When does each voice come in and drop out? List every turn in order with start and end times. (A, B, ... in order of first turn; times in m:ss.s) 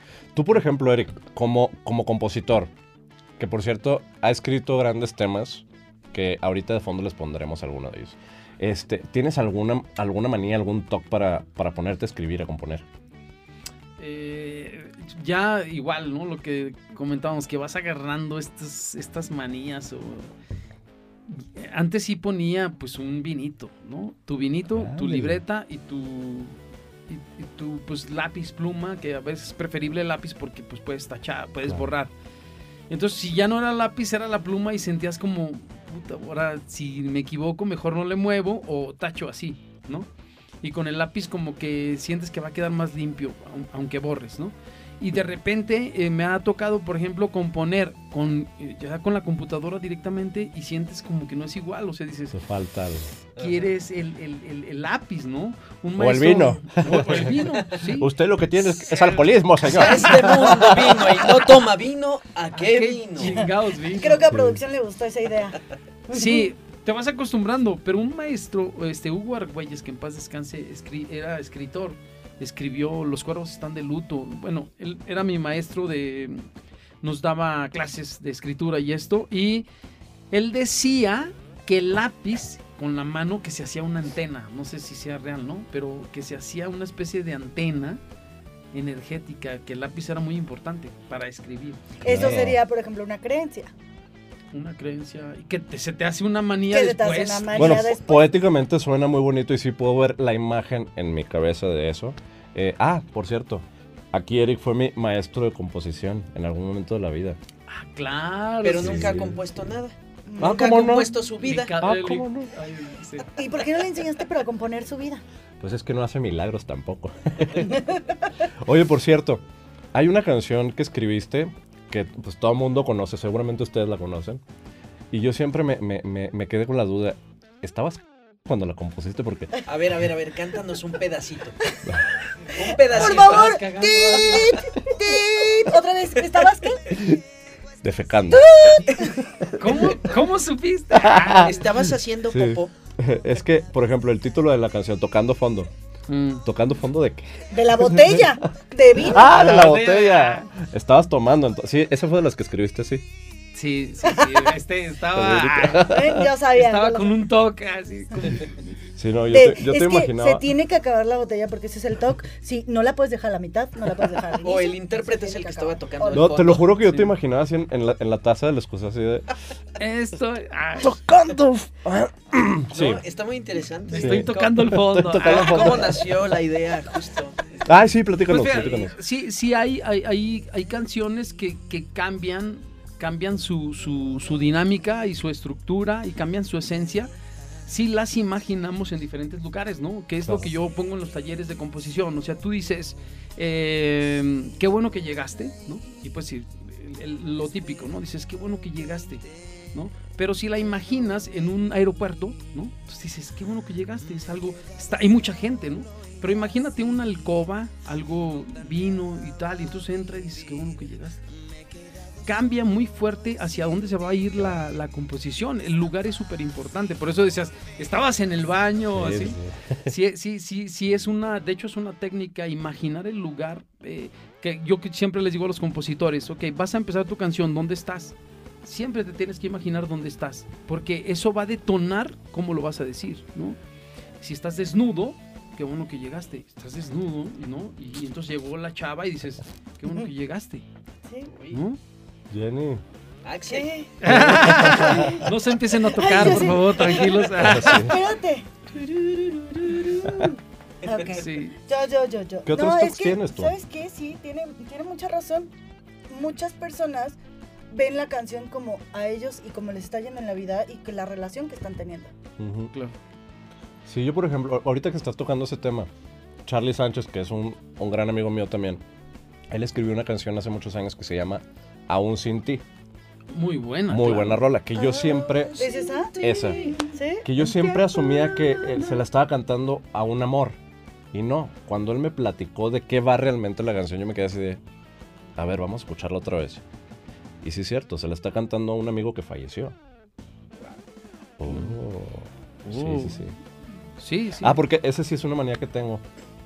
0:00.3-0:02.7 A
0:03.4-0:12.8 A
0:14.0-0:20.3 B
0:21.3-0:26.5 B
0:24.7-0:25.4 A
0:27.1-0:32.1 B
0:32.9-0:40.1 B
0:40.6-0:52.4 B
0:52.3-0:53.1 A
0:53.4-1:00.5 B
0:53.4-0:53.7 C
0:56.0-1:01.4 A
0:59.6-1:03.4 C
1:02.6-1:04.3 B
1:03.9-1:06.5 D
1:04.3-1:04.6 A
1:06.1-1:16.5 B
1:17.0-1:19.7 B
1:20.3-1:28.0 B
1:28.7-1:32.4 B
1:32.0-1:33.7 D
1:32.0-1:32.6 A
1:34.5-1:37.9 B
1:36.7-1:38.3 D
1:37.5-1:47.4 A
1:47.7-1:49.2 B
1:48.6-1:51.8 C
1:48.8-1:49.4 A
1:50.3-1:50.8 D
1:50.4-1:51.2 A
1:51.4-1:53.3 B
1:51.8-1:52.5 A
1:53.4-1:55.2 D
1:55.6-1:57.8 A
1:57.6-1:58.1 D
1:58.6-2:04.4 A
2:05.1-2:09.5 A
2:09.6-2:11.6 C
2:12.5-2:14.6 C
2:12.5-2:17.1 D
2:12.9-2:14.6 B
2:17.8-2:20.0 A
2:18.3-2:19.2 D
2:19.6-2:21.7 B
2:20.9-2:21.5 A
2:21.4-2:22.7 C
2:22.3-2:25.7 A
2:26.1-2:26.4 B
2:26.4-2:28.4 A
2:27.5-2:29.5 D
2:29.0-2:33.0 A
2:29.1-2:30.5 B
2:33.5-2:36.0 B
2:34.1-2:34.4 D
2:35.1-2:36.3 A
2:35.8-2:37.2 D
2:36.5-2:38.6 B
2:38.9-2:40.4 A
2:39.3-2:46.4 D
2:44.4-2:46.7 C
2:46.1-2:49.3 A
2:46.8-2:47.1 B
2:49.8-2:51.0 B
2:50.8-2:53.0 A
2:52.7-2:57.4 C
2:53.9-2:56.0 B
2:53.9-2:56.2 A
2:57.6-2:58.9 A
2:58.3-3:07.1 B
3:07.6-3:31.2 B
3:32.2-3:53.6 B
3:38.9-3:39.9 A
3:54.2-4:00.6 B
4:01.1-4:01.3 D
4:01.3-4:01.6 C
4:01.5-4:01.8 B
4:02.3-4:02.8 A
4:03.2-4:03.7 C
4:03.5-4:15.5 D
4:04.0-4:07.9 B
4:04.0-4:05.3 A
4:07.4-4:08.0 A
4:10.8-4:11.1 C
4:11.1-4:11.6 B
4:12.4-4:13.5 A
4:16.1-4:17.2 D
4:17.7-4:22.1 D
4:22.4-4:22.7 A
4:23.8-4:25.9 A
4:26.4-4:28.8 A
4:29.5-4:32.6 A
4:33.3-4:34.4 B
4:33.9-4:35.6 A
4:34.8-4:36.9 C
4:35.5-4:39.0 D
4:36.2-4:36.7 A
4:37.2-4:40.6 A
4:41.1-4:44.6 A
4:45.4-4:46.6 A
4:47.4-4:49.8 A
4:51.4-4:53.3 A
4:51.5-4:51.8 B
4:52.6-4:53.4 B
4:54.0-4:54.6 B
4:54.4-4:56.0 A